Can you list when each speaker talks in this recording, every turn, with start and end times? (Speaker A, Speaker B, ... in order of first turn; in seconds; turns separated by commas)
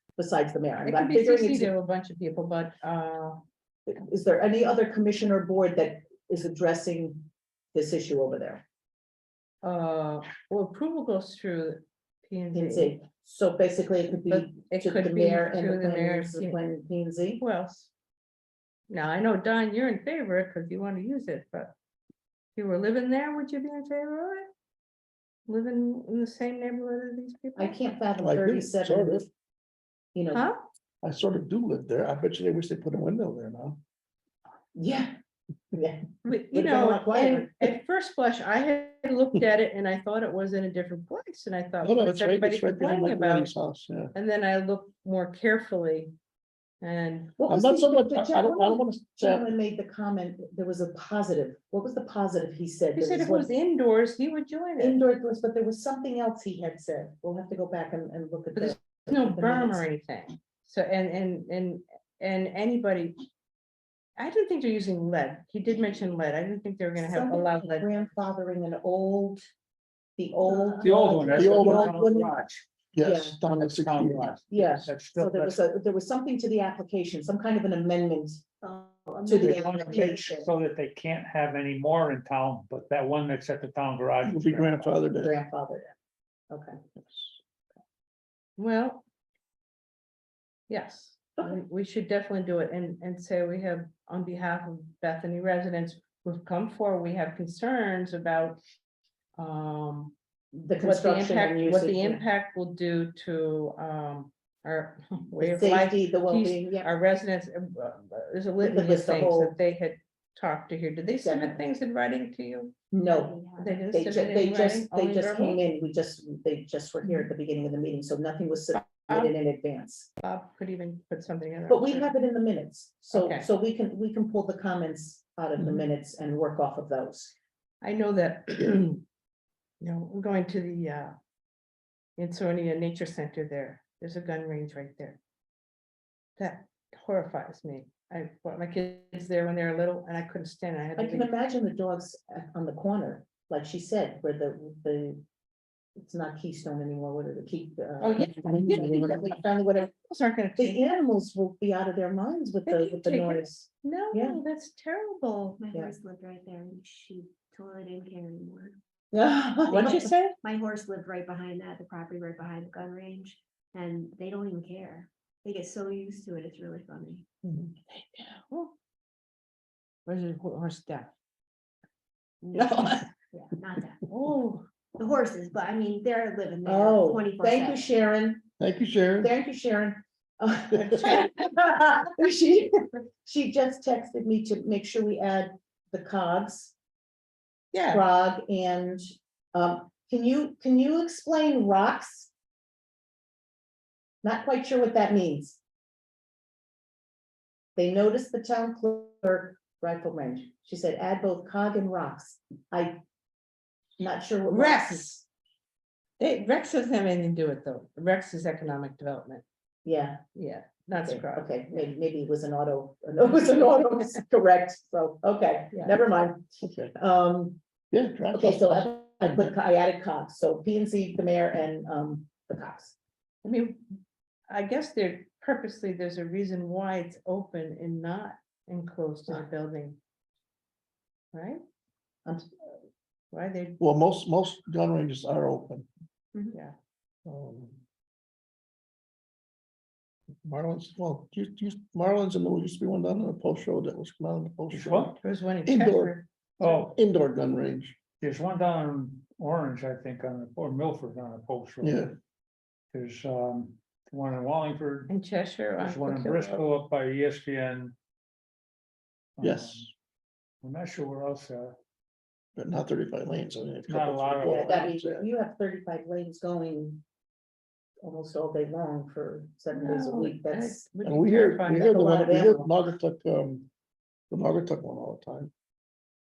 Speaker A: 0.2-1.7, Speaker B: 0.8-3.4, Speaker A: 3.9-8.6, Speaker B: 9.6-13.0, Speaker A: 12.5-17.4, Speaker B: 14.3-16.6, Speaker B: 17.4-17.9, Speaker B: 18.9-21.7, Speaker B: 22.6-24.5, Speaker B: 25.5-27.8, Speaker A: 27.6-29.3, Speaker C: 28.2-29.3, Speaker A: 30.1-30.5, Speaker C: 31.0-33.8, Speaker A: 34.8-35.1, Speaker A: 35.7-37.7, Speaker B: 36.2-43.5, Speaker C: 41.8-44.1, Speaker B: 44.1-46.1, Speaker B: 46.8-47.4, Speaker A: 47.4-53.5, Speaker C: 47.5-49.5, Speaker B: 53.0-55.0, Speaker A: 54.8-59.8, Speaker B: 58.5-63.2, Speaker B: 64.2-68.0, Speaker A: 67.0-69.5, Speaker A: 70.2-72.3, Speaker D: 70.6-71.5, Speaker E: 70.8-72.7, Speaker C: 71.4-71.9, Speaker C: 72.9-74.3, Speaker A: 73.0-73.4, Speaker E: 73.5-75.6, Speaker A: 74.5-78.4, Speaker D: 78.6-80.2, Speaker A: 79.2-80.5, Speaker E: 79.4-85.0, Speaker C: 84.2-85.3, Speaker A: 85.2-85.9, Speaker A: 86.5-86.8, Speaker C: 87.0-87.3, Speaker B: 88.6-89.0, Speaker B: 90.7-98.6, Speaker B: 99.4-100.2, Speaker A: 100.5-102.2, Speaker B: 100.8-112.8, Speaker A: 105.4-106.9, Speaker A: 108.6-109.6, Speaker A: 111.2-111.6, Speaker A: 112.9-120.1, Speaker D: 113.1-113.8, Speaker B: 113.6-115.6, Speaker B: 118.8-119.3, Speaker B: 120.2-122.1, Speaker A: 121.7-127.3, Speaker B: 123.1-123.5, Speaker C: 125.6-125.8, Speaker B: 127.8-129.0, Speaker B: 129.8-131.1, Speaker B: 132.2-135.2, Speaker B: 136.4-141.3, Speaker A: 141.0-145.2, Speaker A: 146.0-149.9, Speaker B: 148.0-151.0, Speaker A: 150.6-154.4, Speaker B: 152.7-155.6, Speaker D: 155.6-158.8, Speaker A: 159.1-160.1, Speaker D: 159.7-167.2, Speaker B: 159.7-160.4, Speaker C: 167.4-167.7, Speaker B: 168.5-168.7, Speaker B: 170.1-171.1, Speaker D: 172.4-174.0, Speaker B: 172.5-173.1, Speaker B: 174.1-174.7, Speaker D: 175.0-177.9, Speaker A: 176.7-178.5, Speaker C: 178.6-179.3, Speaker A: 179.2-186.8, Speaker B: 180.7-181.7, Speaker B: 187.7-188.1, Speaker A: 187.9-192.3, Speaker A: 194.2-195.6, Speaker A: 197.8-203.0, Speaker A: 204.0-205.1, Speaker B: 204.4-205.2, Speaker B: 206.2-209.4, Speaker A: 209.8-210.2, Speaker B: 210.3-211.9, Speaker A: 211.0-217.6, Speaker B: 215.7-216.0, Speaker C: 216.6-216.9, Speaker C: 217.9-219.5, Speaker A: 218.3-223.0, Speaker B: 223.4-223.8, Speaker B: 224.5-230.0, Speaker B: 231.3-231.6, Speaker B: 233.3-233.8, Speaker C: 233.8-235.9, Speaker C: 237.2-237.8, Speaker C: 240.4-248.0, Speaker E: 244.7-245.2, Speaker B: 245.2-246.3, Speaker E: 246.6-246.9, Speaker E: 248.2-252.1, Speaker C: 251.8-252.2, Speaker E: 252.9-255.1, Speaker B: 255.1-256.6, Speaker E: 255.8-257.9, Speaker E: 259.4-259.9, Speaker C: 259.4-259.9, Speaker E: 260.6-261.8, Speaker C: 262.6-265.3, Speaker E: 263.9-264.9, Speaker A: 264.4-267.0, Speaker A: 268.0-270.9, Speaker B: 269.7-272.4, Speaker C: 271.0-273.7, Speaker A: 271.7-272.7, Speaker C: 274.3-275.5